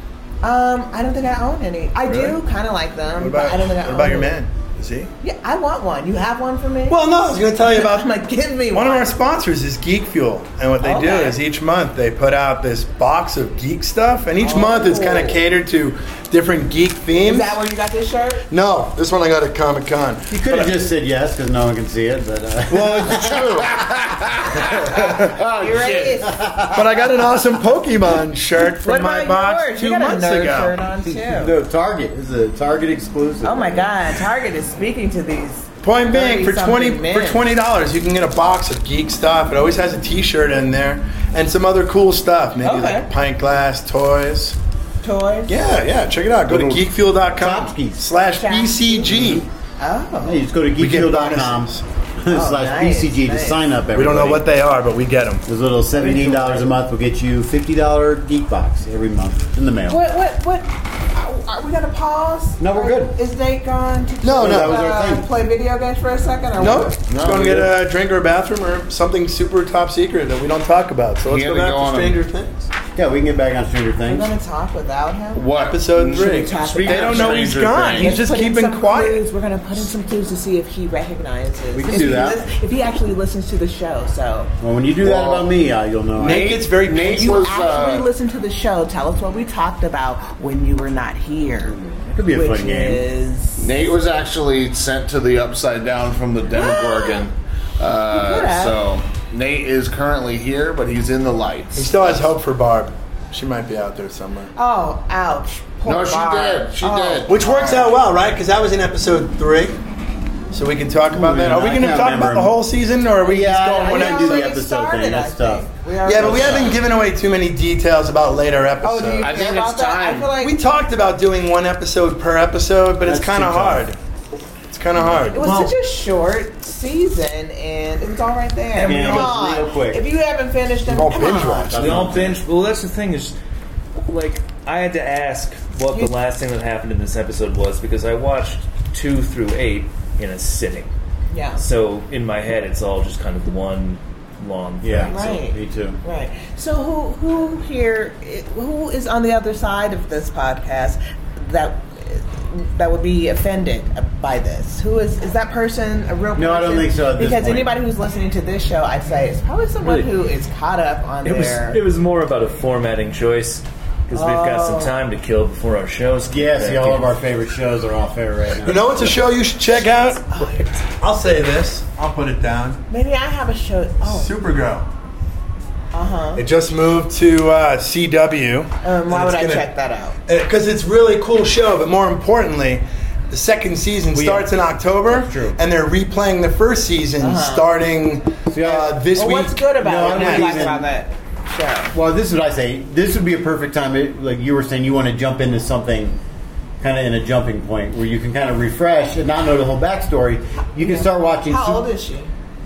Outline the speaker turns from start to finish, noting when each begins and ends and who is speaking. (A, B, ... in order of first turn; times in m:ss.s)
0:00.4-0:04.4 A
0:03.2-0:05.1 B
0:05.2-0:07.0 A
0:06.9-0:08.1 B
0:07.6-0:09.1 A
0:08.7-0:17.6 B
0:10.8-0:11.4 A
0:14.4-0:15.4 A
0:17.2-0:18.5 A
0:18.5-0:20.7 B
0:20.3-0:23.8 C
0:22.7-0:23.2 B
0:23.1-0:26.2 D
0:25.5-0:26.4 A
0:26.2-0:27.1 C
0:26.7-0:30.8 B
0:28.8-0:31.6 A
0:31.1-0:34.0 C
0:33.4-0:37.5 A
0:35.8-0:44.6 B
0:42.6-0:43.1 A
0:45.0-0:45.6 A
0:45.5-0:49.5 B
0:46.5-0:46.8 D
0:47.4-0:48.1 C
0:48.3-0:49.2 A
0:49.1-0:49.4 C
0:49.8-0:50.4 A
0:50.2-0:54.4 C
0:50.8-0:51.8 B
0:52.3-0:53.6 A
0:53.9-0:55.4 B
0:55.5-1:00.0 C
0:56.2-0:56.5 E
0:59.9-1:07.0 A
1:02.6-1:03.2 C
1:04.2-1:04.8 B
1:04.3-1:05.3 C
1:06.6-1:12.7 B
1:07.0-1:07.7 D
1:11.2-1:12.2 D
1:12.9-1:14.3 C
1:14.1-1:15.5 A
1:15.3-1:18.2 D
1:15.6-1:19.2 B
1:16.0-1:24.5 A
1:21.7-1:22.5 C
1:24.6-1:26.6 C
1:25.0-1:25.5 D
1:26.2-1:27.5 B
1:26.2-1:28.1 D
1:27.1-1:31.8 A
1:31.7-1:33.0 C
1:32.3-1:33.7 A
1:33.6-1:42.3 D
1:36.5-1:37.3 A
1:38.1-1:38.8 A
1:41.8-1:44.5 B
1:44.6-1:48.0 A
1:45.8-1:47.3 D
1:47.3-1:49.8 B
1:50.5-1:54.6 B
1:51.1-1:52.6 C
1:53.2-1:56.8 C
1:53.6-1:56.8 A
1:56.0-1:59.4 B
1:58.8-2:00.6 A
1:59.2-2:00.4 D
2:00.4-2:04.0 B
2:03.0-2:03.9 C
2:04.7-2:05.4 B
2:05.1-2:05.8 C
2:05.3-2:11.8 A
2:08.8-2:10.1 C
2:10.9-2:12.2 B
2:11.1-2:12.4 C
2:11.8-2:13.4 E
2:14.0-2:20.9 E
2:21.3-2:21.6 A
2:21.6-2:25.2 E
2:24.8-2:26.0 C
2:25.1-2:41.8 A
2:36.4-2:37.7 C
2:39.8-2:40.1 E
2:41.2-2:47.1 E
2:44.1-2:44.9 A
2:46.3-2:49.2 C
2:48.6-2:50.4 B
2:50.9-2:52.8 B
2:52.9-2:54.3 A
2:54.0-2:54.9 B
2:55.9-2:56.4 A
2:56.4-2:59.7 B
2:58.8-3:00.2 A
3:00.3-3:10.7 B
3:04.1-3:05.6 C
3:07.2-3:07.7 A
3:08.5-3:09.0 C
3:09.2-3:11.9 A
3:09.8-3:10.9 C
3:11.9-3:16.2 C
3:16.8-3:21.9 C
3:20.8-3:22.3 A